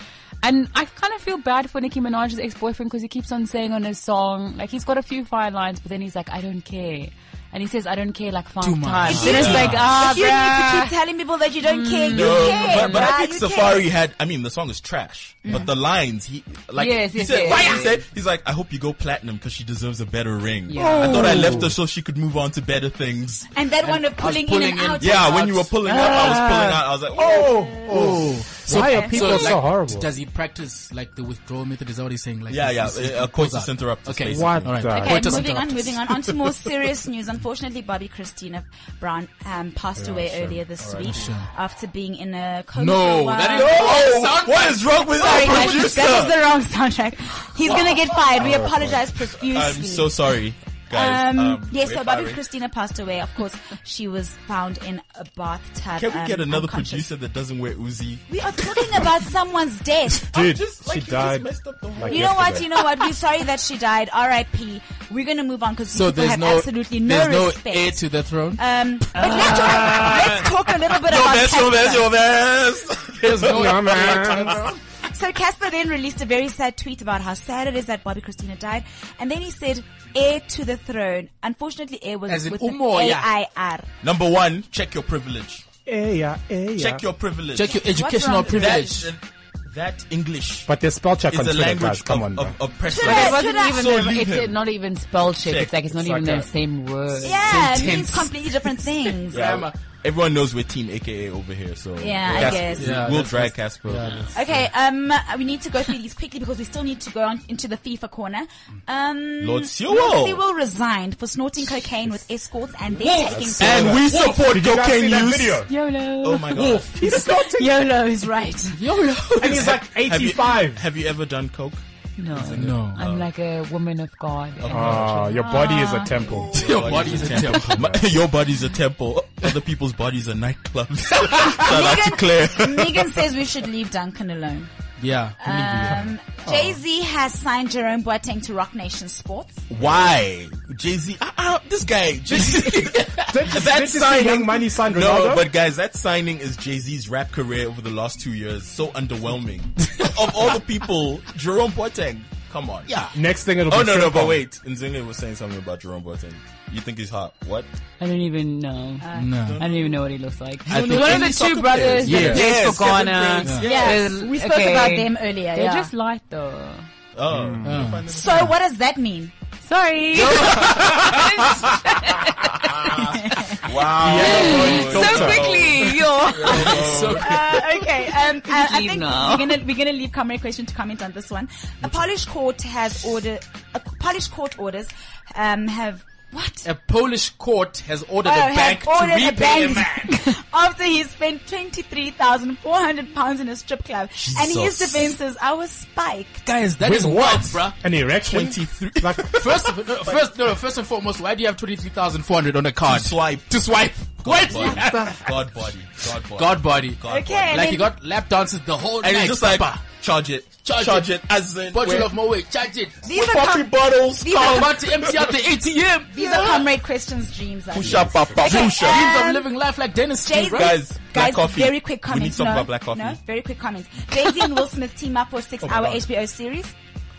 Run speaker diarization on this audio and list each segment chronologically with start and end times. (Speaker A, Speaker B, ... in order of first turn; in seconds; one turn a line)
Speaker A: 0.4-10.9
Speaker B: 8.6-9.9
Speaker C: 9.0-9.8
Speaker D: 9.1-13.9
Speaker A: 11.6-13.1
Speaker C: 12.1-23.5
Speaker D: 15.4-15.7
Speaker A: 16.8-17.9
Speaker D: 17.5-17.9
Speaker A: 20.7-21.6
Speaker E: 20.8-21.7
Speaker D: 20.9-21.3
Speaker D: 23.5-25.4
Speaker B: 23.8-26.4
Speaker C: 25.0-28.2
Speaker A: 25.9-26.8
Speaker E: 27.1-30.1
Speaker D: 27.2-28.1
Speaker B: 27.9-36.0
Speaker D: 28.7-29.6
Speaker C: 32.5-34.8
Speaker E: 34.3-35.4
Speaker D: 34.9-44.2
Speaker E: 40.0-40.7
Speaker C: 40.8-41.2
Speaker B: 41.0-41.5
Speaker B: 42.8-45.8
Speaker C: 43.5-46.3
Speaker D: 45.2-50.2
Speaker C: 47.7-48.1
Speaker E: 48.4-49.0
Speaker C: 49.4-52.4
Speaker D: 50.9-57.1
Speaker C: 56.0-59.1
Speaker D: 58.3-60.2
Speaker C: 60.3-62.8
Speaker E: 60.3-62.7
Speaker D: 62.1-68.0
Speaker B: 65.9-68.6
Speaker D: 68.5-72.1
Speaker B: 69.1-70.2
Speaker A: 69.2-70.5
Speaker C: 69.6-70.1
Speaker C: 70.9-74.7
Speaker B: 73.2-74.8
Speaker E: 73.4-74.6
Speaker D: 75.1-83.9
Speaker B: 82.3-83.3
Speaker C: 84.0-85.6
Speaker E: 85.8-87.0
Speaker C: 86.8-87.7
Speaker B: 87.5-89.1
Speaker D: 87.7-89.0
Speaker C: 88.4-90.7
Speaker E: 90.7-92.5
Speaker C: 91.3-94.6
Speaker D: 92.9-93.9
Speaker A: 93.0-97.4
Speaker C: 95.3-96.4
Speaker E: 96.0-96.5
Speaker D: 97.2-99.5
Speaker B: 97.2-99.7
Speaker C: 99.3-104.3
Speaker D: 102.0-103.0
Speaker B: 102.3-104.5
Speaker D: 104.3-114.0
Speaker C: 109.4-110.4
Speaker E: 112.9-115.7
Speaker C: 113.6-115.6
Speaker A: 115.7-116.8
Speaker C: 116.2-117.0
Speaker E: 116.5-117.7
Speaker D: 117.1-118.8
Speaker B: 118.7-119.8
Speaker E: 119.4-120.8
Speaker C: 120.0-123.3
Speaker A: 122.2-126.1
Speaker B: 122.5-123.0
Speaker C: 124.6-125.1
Speaker E: 124.7-128.1
Speaker D: 125.3-126.5
Speaker B: 126.5-128.1
Speaker C: 126.5-133.2
Speaker B: 131.2-131.7
Speaker D: 131.4-134.7
Speaker B: 135.0-136.1
Speaker D: 135.4-139.6
Speaker E: 136.5-136.8
Speaker C: 139.7-152.9
Speaker B: 142.3-143.4
Speaker E: 143.2-145.5
Speaker B: 152.9-153.2
Speaker E: 153.1-154.4
Speaker C: 153.7-157.7
Speaker A: 158.0-166.8
Speaker D: 159.0-159.4
Speaker B: 159.2-159.6
Speaker C: 159.3-159.9
Speaker C: 160.7-164.1
Speaker B: 160.7-162.7
Speaker D: 163.6-165.9
Speaker C: 167.1-168.5
Speaker E: 167.3-168.0
Speaker B: 167.6-168.0
Speaker D: 168.1-169.3
Speaker A: 169.6-177.0
Speaker C: 170.1-171.8
Speaker D: 173.0-173.6
Speaker C: 173.6-177.4
Speaker E: 173.8-175.6
Speaker B: 176.3-177.7
Speaker D: 176.4-186.7
Speaker A: 177.8-179.6
Speaker B: 186.6-190.2
Speaker D: 188.2-196.4
Speaker C: 194.2-195.2
Speaker B: 196.4-197.8
Speaker E: 196.8-199.4
Speaker C: 198.3-200.2
Speaker B: 199.4-205.5
Speaker C: 202.8-207.7
Speaker B: 206.3-207.0
Speaker D: 207.0-207.9
Speaker B: 207.5-209.8
Speaker C: 209.0-212.1
Speaker B: 210.7-211.1
Speaker B: 211.7-213.2
Speaker D: 213.0-214.8
Speaker C: 213.1-215.4
Speaker B: 214.3-216.7
Speaker D: 216.1-219.5
Speaker C: 217.7-219.0
Speaker B: 217.8-220.8
Speaker E: 217.9-218.3
Speaker D: 220.2-226.7
Speaker C: 220.5-223.2
Speaker E: 225.7-225.9